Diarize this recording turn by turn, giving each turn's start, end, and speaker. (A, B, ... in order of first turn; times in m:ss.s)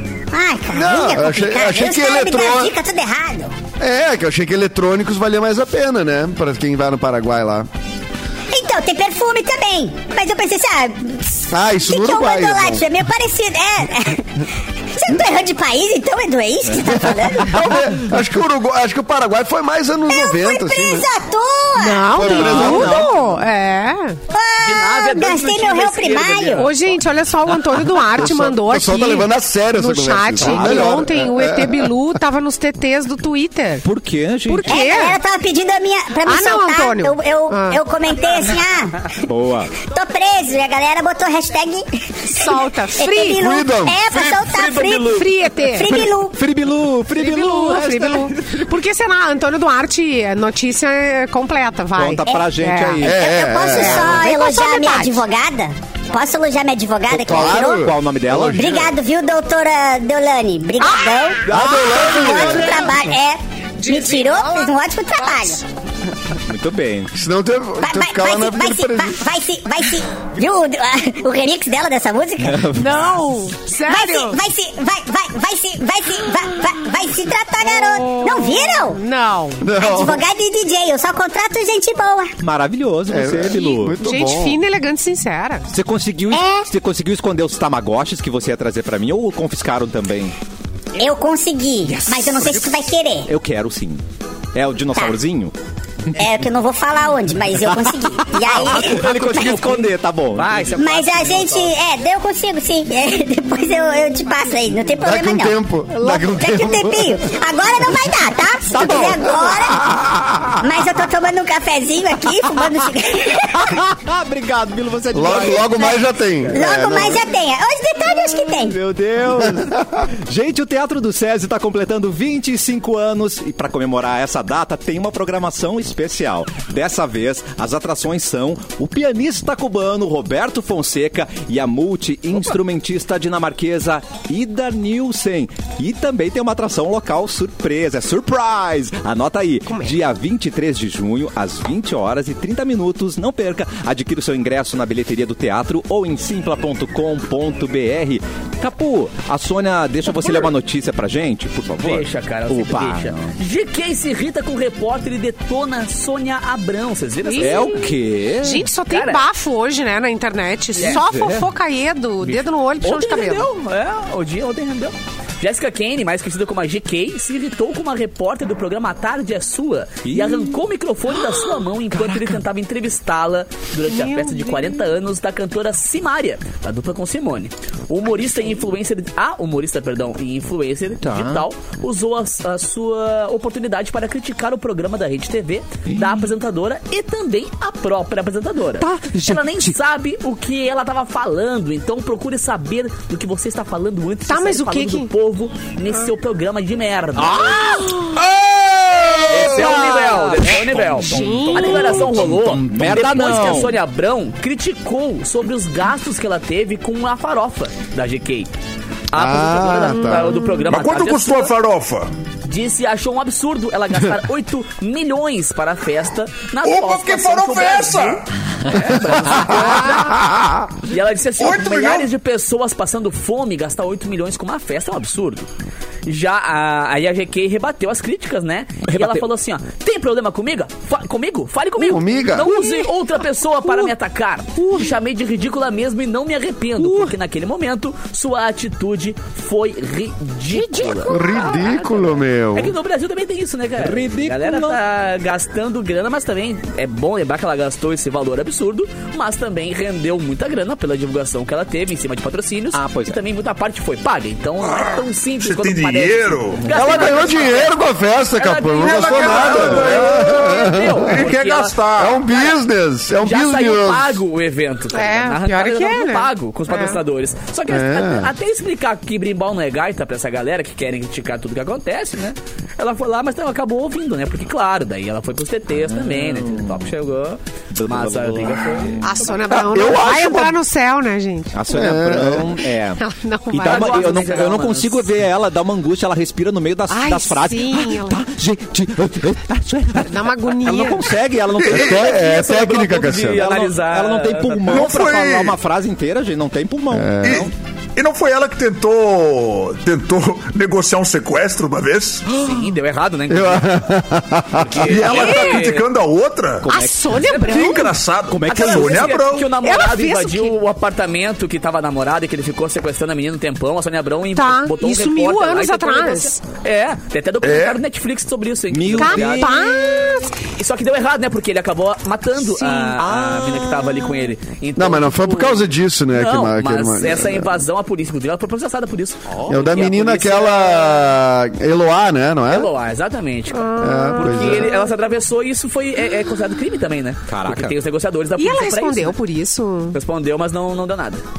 0:00.3-0:03.5 A
0:00.7-0:02.7 B
0:03.8-0:07.7 B
0:08.5-0:17.6 A
0:11.5-0:12.8 B
0:17.0-0:21.1 B
0:20.1-0:22.2 A
0:21.8-0:24.2 C
0:22.1-0:23.1 B
0:22.2-0:23.2 D
0:24.3-0:26.7 A
0:24.6-0:27.0 E
0:26.6-0:33.8 C
0:28.2-0:32.0 B
0:30.4-0:31.0 D
0:33.8-0:34.8 D
0:34.5-0:35.2 C
0:34.7-0:39.1 A
0:36.2-0:37.8 C
0:39.2-0:39.7 D
0:39.8-0:46.4 A
0:42.3-0:43.4 C
0:43.4-0:44.1 B
0:44.5-0:45.3 E
0:44.9-0:45.9 C
0:45.9-0:48.7 D
0:47.2-0:53.1 C
0:52.0-0:53.2 D
0:53.0-0:57.9 A
0:53.0-0:54.2 B
0:53.7-0:55.2 C
0:57.1-0:58.9 D
0:57.2-0:58.8 B
0:58.5-1:05.6 A
1:00.8-1:02.0 C
1:01.4-1:02.8 B
1:01.5-1:02.3 D
1:03.8-1:04.7 C
1:06.5-1:07.1 D
1:07.1-1:09.2 B
1:07.8-1:12.7 A
1:12.4-1:13.1 D
1:12.7-1:14.4 C
1:13.8-1:19.0 A
1:17.6-1:19.6 C
1:19.6-1:20.2 B
1:19.8-1:22.3 A
1:22.4-1:24.0 D
1:23.1-1:24.6 B
1:23.8-1:25.6 C
1:25.7-1:30.3 D
1:26.3-1:26.7 A
1:31.0-1:33.3 A
1:31.8-1:32.7 D
1:33.2-1:34.0 D
1:34.5-1:35.5 D
1:36.2-1:39.7 A
1:37.6-1:40.8 D
1:40.3-1:41.7 E
1:40.8-1:45.6 A
1:45.0-1:47.3 B
1:46.0-1:46.3 D
1:46.1-1:49.9 A
1:48.7-1:49.8 D
1:50.0-1:50.6 B
1:50.6-1:53.7 A
1:53.4-1:56.0 D
1:55.1-1:57.2 B
1:55.6-1:56.0 A
1:56.5-1:57.0 D
1:56.5-1:58.8 A
1:58.4-2:33.3 D
1:59.4-2:00.0 B
2:19.7-2:20.0 C
2:31.8-2:37.8 E
2:37.2-2:37.9 C
2:37.4-2:38.7 D
2:38.4-2:43.5 C
2:38.9-2:39.2 E
2:40.7-2:41.0 E
2:40.8-2:41.5 D
2:42.2-3:17.9 E
2:50.0-2:50.6 D
2:52.0-2:52.3 D
2:53.8-2:54.9 C
3:01.0-3:01.4 D
3:08.8-3:09.8 D
3:14.3-3:15.1 C
3:17.2-3:18.2 D
3:19.2-3:23.8 D
3:19.2-3:28.5 E
3:21.0-3:22.1 C
3:22.1-3:22.5 F
3:29.1-3:31.5 E
3:29.1-3:30.4 B
3:29.9-3:30.6 C
3:30.6-3:32.1 F
3:32.4-3:40.3 E
3:36.6-3:38.2 F
3:40.8-3:45.5 E
3:41.4-3:42.1 F
3:46.0-4:17.8 E
3:48.8-3:49.2 D
3:51.8-3:52.5 B
3:52.4-3:52.8 C
3:53.6-3:53.9 D
3:54.6-3:54.9 D
3:56.8-3:57.1 D
4:00.5-4:01.4 C
4:01.1-4:02.7 B
4:03.8-4:04.8 D
4:12.7-4:13.2 D
4:14.7-4:17.1 F
4:16.7-4:21.2 B
4:18.3-4:21.8 E
4:18.7-4:22.3 F
4:22.0-4:24.2 B
4:23.2-4:39.5 E
4:24.9-4:27.0 C
4:27.7-4:28.3 B
4:35.7-4:36.9 D
4:37.7-4:39.0 D
4:39.0-4:41.6 C
4:39.5-4:40.6 B
4:41.5-4:52.2 D
4:41.7-4:42.6 B
4:43.0-4:44.5 C
4:43.6-4:45.0 E
4:46.9-4:48.2 C
4:50.0-4:51.1 C
4:51.6-4:53.5 B
4:52.0-4:54.9 E
4:53.3-4:57.5 D
4:54.7-4:55.6 F
4:56.9-4:57.5 B
4:57.2-5:02.4 F
5:02.3-5:03.8 E
5:03.3-5:05.0 B
5:04.6-5:05.8 E
5:04.8-5:06.7 F
5:05.1-5:05.6 C
5:06.6-5:07.3 D
5:06.7-5:07.9 C
5:07.2-5:07.8 E
5:07.4-5:09.5 F
5:08.3-5:09.2 D
5:08.4-5:19.6 E
5:09.6-5:10.6 C
5:14.3-5:16.4 C
5:17.4-5:17.8 F
5:18.7-5:20.2 D
5:19.0-5:20.3 C
5:20.6-5:31.0 E
5:22.6-5:23.0 C
5:23.0-5:23.9 D
5:24.8-5:27.6 B
5:29.3-5:29.6 D
5:29.5-5:32.7 B
5:32.5-5:39.2 E
5:33.5-5:34.9 C
5:33.8-5:34.8 B
5:37.3-5:37.8 D
5:38.4-5:40.0 C
5:39.9-5:41.2 E